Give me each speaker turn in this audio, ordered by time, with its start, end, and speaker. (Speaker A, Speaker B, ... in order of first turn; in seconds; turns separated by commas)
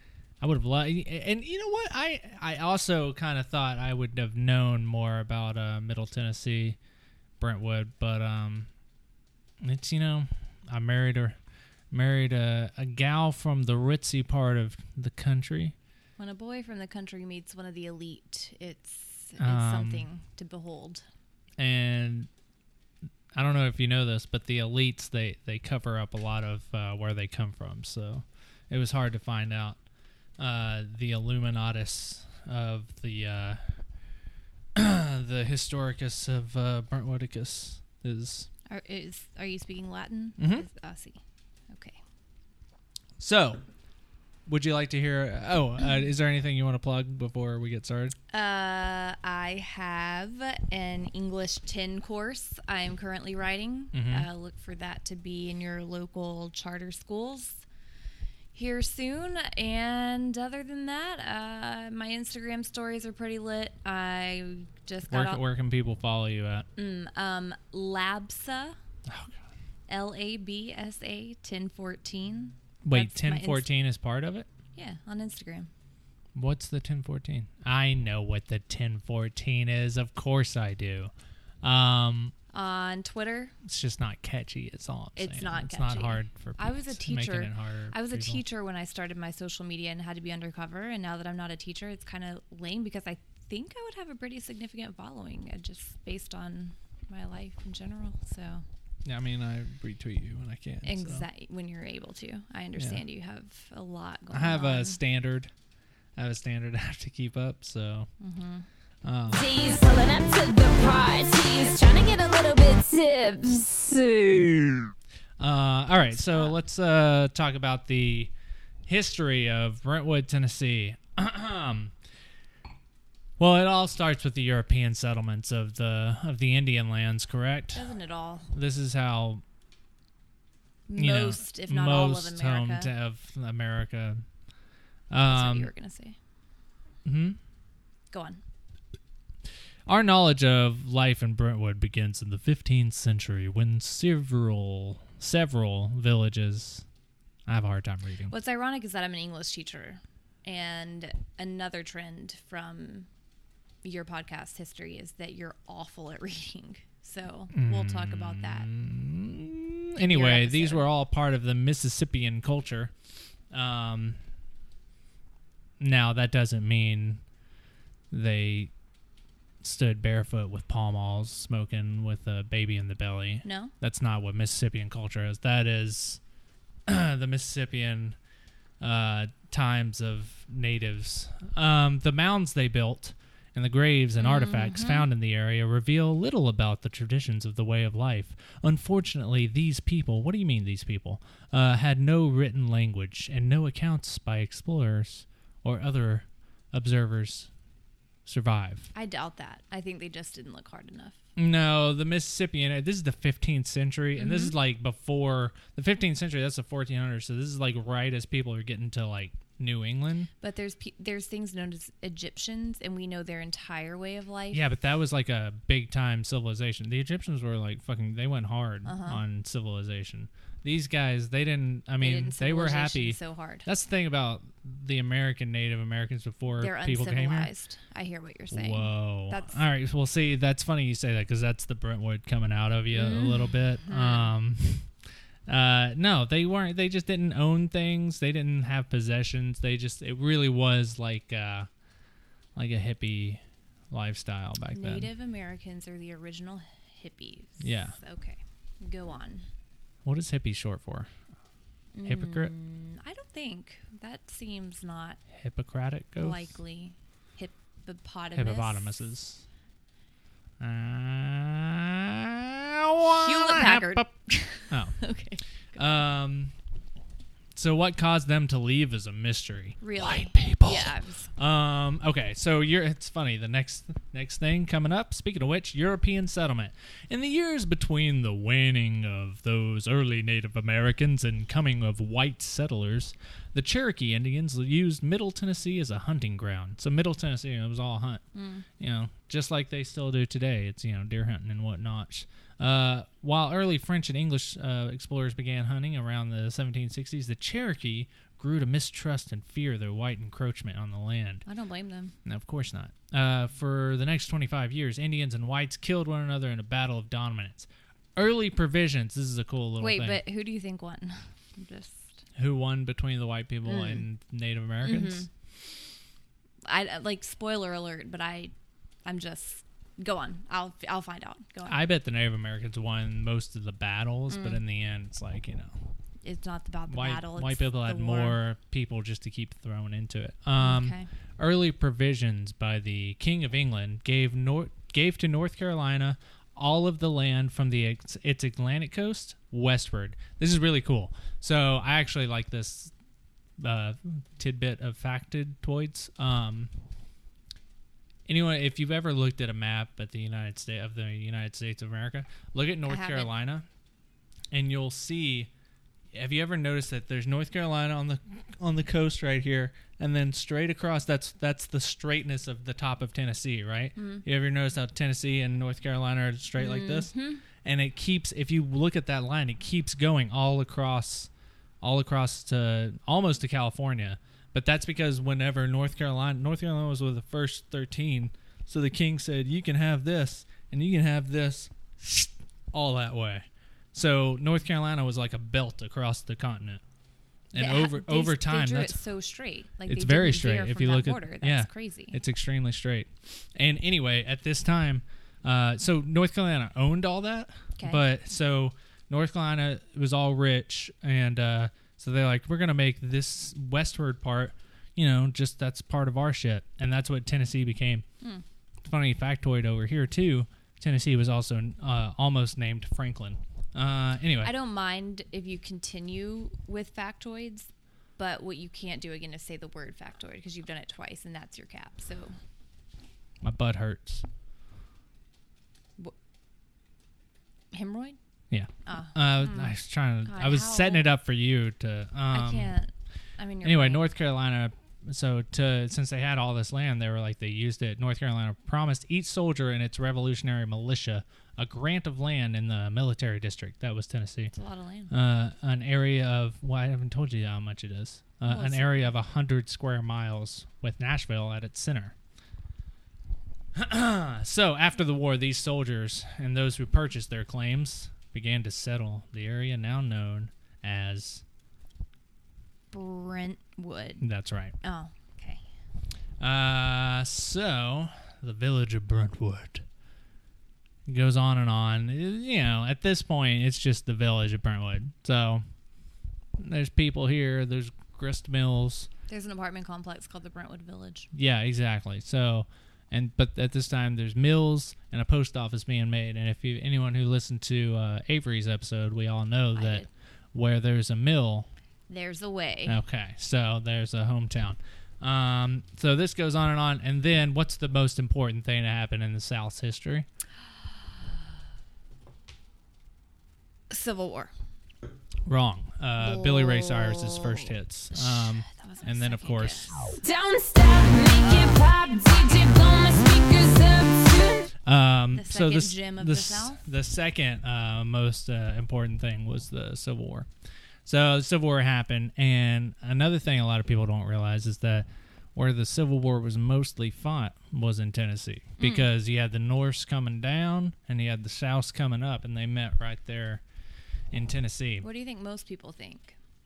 Speaker A: 0.4-6.8, Speaker A: 7.4-8.7, Speaker A: 9.6-11.4, Speaker A: 11.9-15.7, Speaker B: 16.2-21.0, Speaker A: 19.4-20.1, Speaker A: 21.6-22.3, Speaker A: 23.3-29.8, Speaker A: 30.4-33.6, Speaker A: 34.7-38.5, Speaker B: 38.7-42.0, Speaker A: 40.4-40.6, Speaker A: 43.2-43.6, Speaker A: 44.5-48.1, Speaker B: 48.3-57.6, Speaker A: 53.9-54.3, Speaker B: 58.5-65.4, Speaker A: 65.1-66.7, Speaker B: 66.8-68.8, Speaker A: 69.1-69.4, Speaker B: 69.9-73.7, Speaker A: 72.8-74.5, Speaker B: 74.7-75.7, Speaker A: 76.3-81.1, Speaker A: 81.6-82.3, Speaker B: 82.5-83.5, Speaker A: 83.6-88.4, Speaker B: 85.2-98.6, Speaker A: 99.0-101.2, Speaker B: 100.8-105.0, Speaker A: 104.3-105.5, Speaker A: 106.2-108.1, Speaker B: 108.2-108.7, Speaker A: 109.0-109.5, Speaker C: 109.3-114.9, Speaker A: 115.4-118.3, Speaker B: 116.3-116.5, Speaker A: 118.8-121.9, Speaker A: 123.4-127.9, Speaker B: 127.7-128.5, Speaker A: 128.5-129.4, Speaker B: 130.9-132.9, Speaker A: 130.9-134.2, Speaker A: 135.1-135.7, Speaker B: 135.2-136.2, Speaker A: 137.0-137.4, Speaker B: 138.1-138.4, Speaker A: 139.9-146.8, Speaker A: 147.5-148.3, Speaker B: 148.3-153.1, Speaker B: 153.8-158.7, Speaker A: 157.5-162.9, Speaker B: 160.1-160.9, Speaker A: 163.5-164.2, Speaker A: 165.8-167.2, Speaker A: 168.1-168.7, Speaker A: 169.6-176.2, Speaker B: 173.4-173.7, Speaker A: 176.9-178.2, Speaker A: 178.8-197.5, Speaker B: 184.2-185.1, Speaker A: 198.2-198.9, Speaker B: 198.9-201.2, Speaker A: 201.3-210.3, Speaker B: 204.2-204.5, Speaker B: 210.4-214.7, Speaker A: 214.5-227.5, Speaker B: 218.8-219.2, Speaker B: 222.0-223.7, Speaker B: 226.6-229.6, Speaker A: 228.5-234.9, Speaker B: 232.9-234.3, Speaker A: 235.5-241.7, Speaker A: 242.6-245.1, Speaker B: 244.7-249.5, Speaker A: 247.6-247.9, Speaker A: 250.0-251.1, Speaker B: 251.9-255.2, Speaker A: 252.0-252.5, Speaker A: 255.3-256.5, Speaker B: 256.2-259.1, Speaker A: 258.3-259.4, Speaker A: 260.6-264.1, Speaker B: 263.1-266.0, Speaker A: 264.7-264.9, Speaker A: 265.8-266.5, Speaker A: 267.5-288.2, Speaker B: 269.8-271.3, Speaker B: 288.3-288.7, Speaker A: 288.8-301.4, Speaker B: 301.4-302.1, Speaker A: 302.2-310.2, Speaker B: 309.8-312.2, Speaker A: 312.4-315.3, Speaker B: 313.6-314.0, Speaker B: 314.8-315.3, Speaker B: 316.6-318.5, Speaker B: 319.0-321.8, Speaker A: 321.6-325.7, Speaker B: 324.3-324.6, Speaker B: 326.2-328.4, Speaker A: 326.9-342.9, Speaker B: 330.6-331.1, Speaker A: 343.6-346.7, Speaker A: 348.2-353.6, Speaker B: 352.9-353.3, Speaker A: 354.5-355.5, Speaker A: 356.1-386.8, Speaker B: 363.9-364.2, Speaker B: 366.6-367.4, Speaker A: 387.5-389.0, Speaker B: 387.6-392.2, Speaker A: 389.9-408.0, Speaker B: 397.8-398.0, Speaker A: 408.8-414.5, Speaker B: 414.4-422.4, Speaker A: 423.4-424.2, Speaker B: 427.7-428.2, Speaker A: 428.5-432.7, Speaker B: 428.9-431.1, Speaker B: 432.3-434.1, Speaker A: 433.6-444.5, Speaker B: 444.5-445.1, Speaker A: 445.1-452.1, Speaker B: 448.4-449.1, Speaker A: 453.7-461.4, Speaker B: 462.9-464.2, Speaker A: 464.2-464.7, Speaker B: 464.8-465.6, Speaker A: 466.4-469.8, Speaker A: 471.1-475.6, Speaker A: 476.6-479.1, Speaker B: 479.3-481.3, Speaker A: 481.3-491.7, Speaker B: 489.7-490.1, Speaker B: 492.1-493.0, Speaker A: 492.9-500.2, Speaker B: 503.9-504.5, Speaker A: 505.4-510.1, Speaker B: 506.2-510.1, Speaker C: 510.2-514.7, Speaker A: 514.8-520.5, Speaker B: 515.3-516.8, Speaker A: 521.0-533.6, Speaker B: 528.8-529.1, Speaker A: 534.3-535.0, Speaker B: 535.0-536.4